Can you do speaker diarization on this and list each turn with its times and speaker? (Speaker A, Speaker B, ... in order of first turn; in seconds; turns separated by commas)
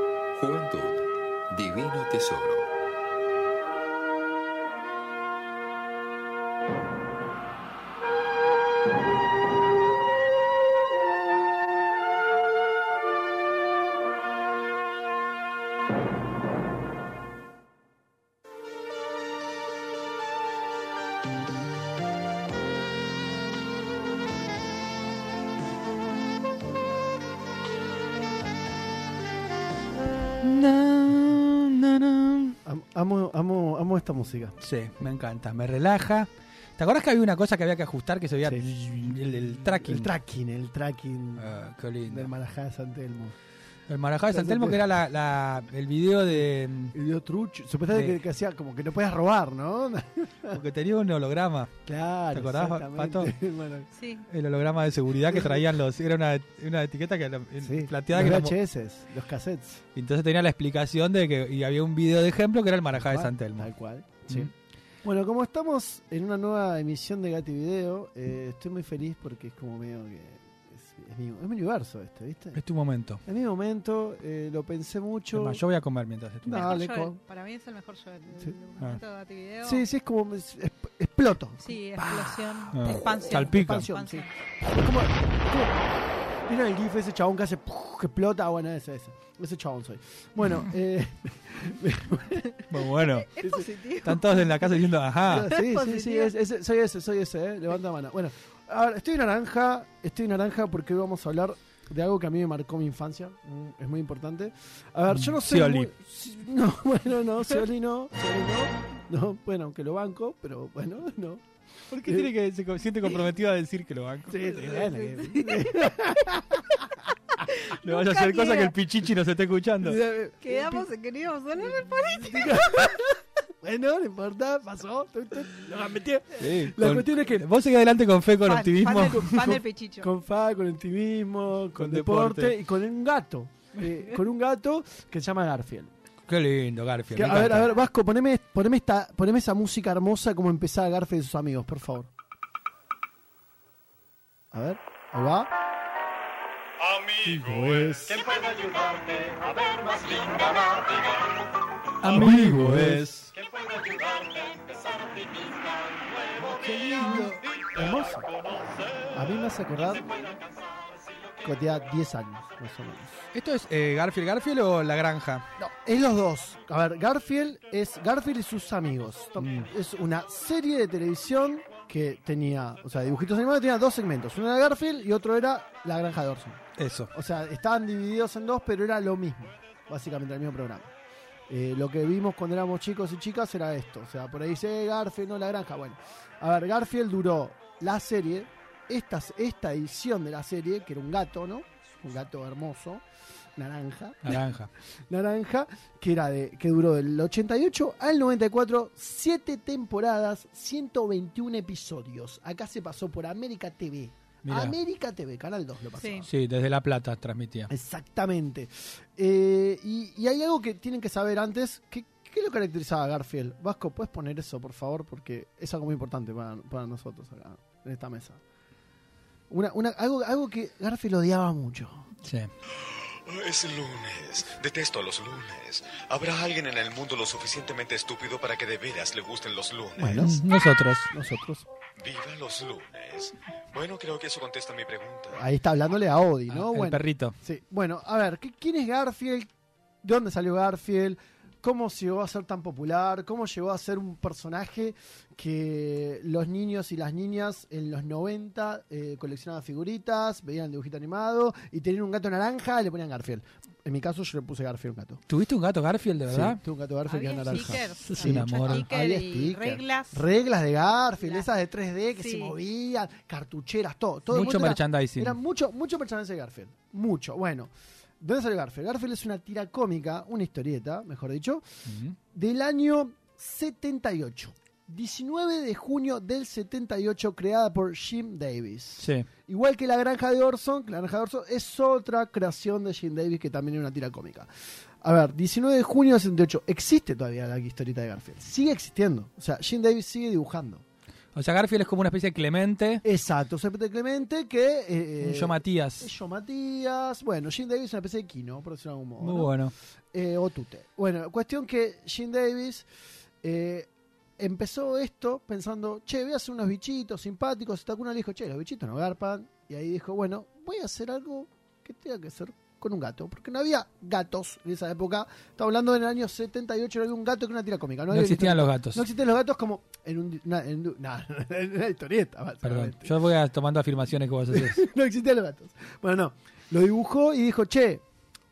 Speaker A: 0.3-2.7, Speaker B: 30.4-32.6, Speaker C: 32.6-34.5, Speaker B: 34.6-40.1, Speaker C: 39.8-41.5, Speaker B: 41.4-42.3, Speaker C: 42.0-43.3, Speaker B: 43.9-46.9, Speaker C: 44.3-44.9, Speaker C: 46.9-50.6, Speaker B: 47.9-48.2, Speaker B: 50.5-51.7, Speaker C: 51.8-53.9, Speaker B: 52.3-53.3, Speaker D: 53.9-54.3, Speaker B: 54.3-58.6, Speaker C: 57.6-59.8, Speaker B: 59.9-63.7, Speaker C: 63.0-64.5, Speaker C: 65.0-72.6, Speaker B: 72.5-73.2, Speaker C: 73.2-75.6, Speaker B: 75.3-76.7, Speaker C: 76.4-77.2, Speaker D: 76.5-79.8, Speaker C: 79.6-85.8, Speaker D: 81.6-84.3, Speaker B: 82.7-83.9, Speaker C: 86.4-92.7, Speaker B: 92.7-93.3, Speaker C: 93.3-93.7, Speaker D: 93.3-94.2, Speaker B: 94.0-95.5, Speaker C: 95.2-111.4, Speaker D: 95.5-96.3, Speaker B: 105.1-105.9, Speaker B: 111.9-114.5, Speaker C: 112.0-112.3, Speaker C: 114.3-117.1, Speaker D: 114.7-115.9, Speaker D: 117.5-118.7, Speaker B: 117.7-120.0, Speaker C: 119.8-120.9, Speaker D: 120.4-123.0, Speaker C: 121.9-127.5, Speaker B: 126.4-129.6, Speaker D: 128.4-130.1, Speaker C: 128.9-135.9, Speaker B: 131.7-132.6, Speaker B: 136.3-137.7, Speaker C: 137.1-142.1, Speaker C: 144.5-145.5, Speaker C: 147.2-149.1, Speaker C: 149.9-150.6, Speaker B: 152.0-153.3, Speaker C: 152.1-153.2, Speaker C: 156.5-158.3, Speaker B: 156.9-157.3, Speaker C: 159.1-160.2, Speaker C: 161.4-163.3, Speaker B: 163.3-165.4, Speaker C: 165.6-176.6, Speaker B: 169.4-169.7, Speaker B: 176.8-177.1, Speaker C: 177.1-180.9, Speaker C: 181.5-193.0, Speaker C: 193.6-194.4, Speaker B: 194.2-194.7, Speaker C: 195.1-206.2, Speaker B: 204.4-204.8, Speaker D: 206.0-206.2, Speaker B: 206.3-207.7, Speaker C: 207.7-218.4, Speaker C: 219.5-222.1, Speaker B: 222.2-222.5, Speaker E: 222.8-230.3, Speaker C: 230.0-231.7, Speaker B: 230.2-231.1, Speaker E: 232.0-235.3, Speaker C: 235.3-239.5, Speaker B: 236.5-237.3, Speaker C: 240.0-255.2, Speaker B: 255.3-256.6, Speaker C: 256.3-271.6, Speaker D: 257.1-260.3, Speaker B: 257.9-258.8, Speaker D: 261.2-261.5, Speaker D: 262.1-262.6, Speaker B: 264.3-265.4, Speaker B: 271.9-272.2, Speaker C: 272.3-284.5, Speaker B: 279.0-279.3, Speaker C: 285.0-290.8, Speaker B: 291.3-293.0, Speaker C: 293.0-299.5, Speaker B: 295.2-296.1, Speaker B: 299.2-299.7, Speaker C: 300.1-302.9, Speaker C: 303.4-323.1, Speaker B: 318.1-319.0, Speaker B: 322.6-324.8, Speaker C: 324.5-328.0